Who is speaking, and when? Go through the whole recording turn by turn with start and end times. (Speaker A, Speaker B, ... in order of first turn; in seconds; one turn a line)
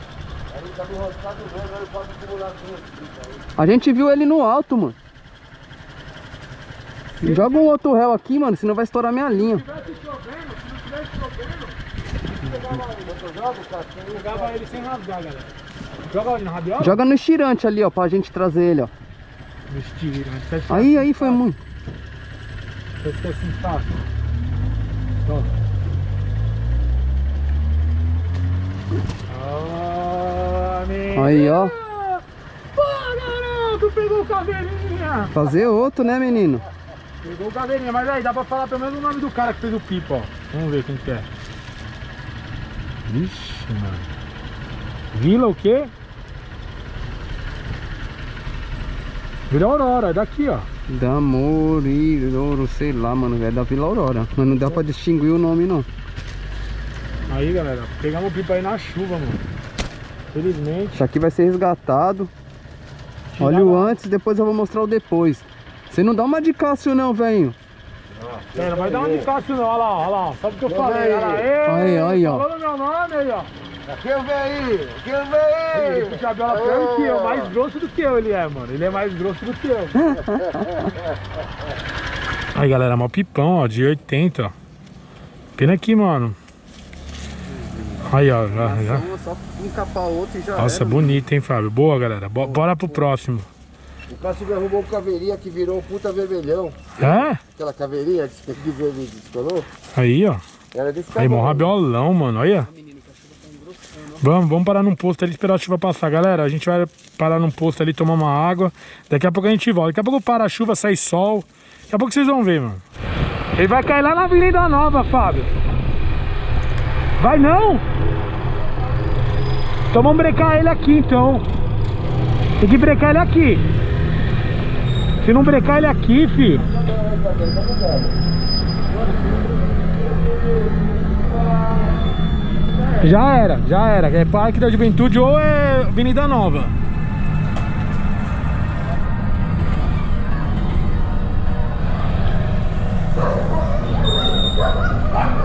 Speaker A: 0.5-3.5
Speaker B: 3.6-5.0
Speaker C: 7.2-7.7
Speaker B: 7.2-9.6
Speaker C: 9.3-11.8
Speaker C: 12.3-13.1
Speaker A: 12.5-14.8
Speaker C: 14.1-15.5
Speaker C: 16.1-17.0
Speaker B: 16.8-18.9
Speaker C: 19.7-21.4
Speaker B: 20.7-21.6
Speaker C: 23.0-24.0
Speaker C: 29.3-32.2
Speaker B: 31.1-31.8
Speaker C: 32.8-35.3
Speaker B: 35.3-36.6
Speaker C: 37.2-41.3
Speaker C: 43.1-44.1
Speaker C: 45.1-45.9
Speaker C: 49.5-50.7
Speaker B: 50.9-55.9
Speaker C: 57.3-59.4
Speaker C: 60.3-61.0
Speaker B: 61.0-62.3
Speaker C: 63.4-63.9
Speaker B: 63.4-67.6
Speaker A: 68.4-69.3
Speaker C: 68.5-73.5
Speaker A: 70.7-71.5
Speaker B: 71.7-72.5
Speaker A: 73.9-77.5
Speaker C: 75.7-80.2
Speaker B: 80.0-80.6
Speaker A: 80.3-81.0
Speaker C: 82.5-84.5
Speaker C: 85.6-86.4
Speaker C: 88.1-89.1
Speaker B: 88.5-91.2
Speaker C: 90.6-93.5
Speaker A: 94.1-99.7
Speaker C: 97.0-97.4
Speaker C: 100.0-100.4
Speaker A: 100.7-101.7
Speaker C: 101.2-102.7
Speaker C: 104.2-112.8
Speaker C: 113.6-115.5
Speaker C: 117.2-117.8
Speaker C: 119.9-121.5
Speaker C: 122.6-123.7
Speaker C: 125.2-126.7
Speaker A: 126.6-128.2
Speaker C: 133.0-136.7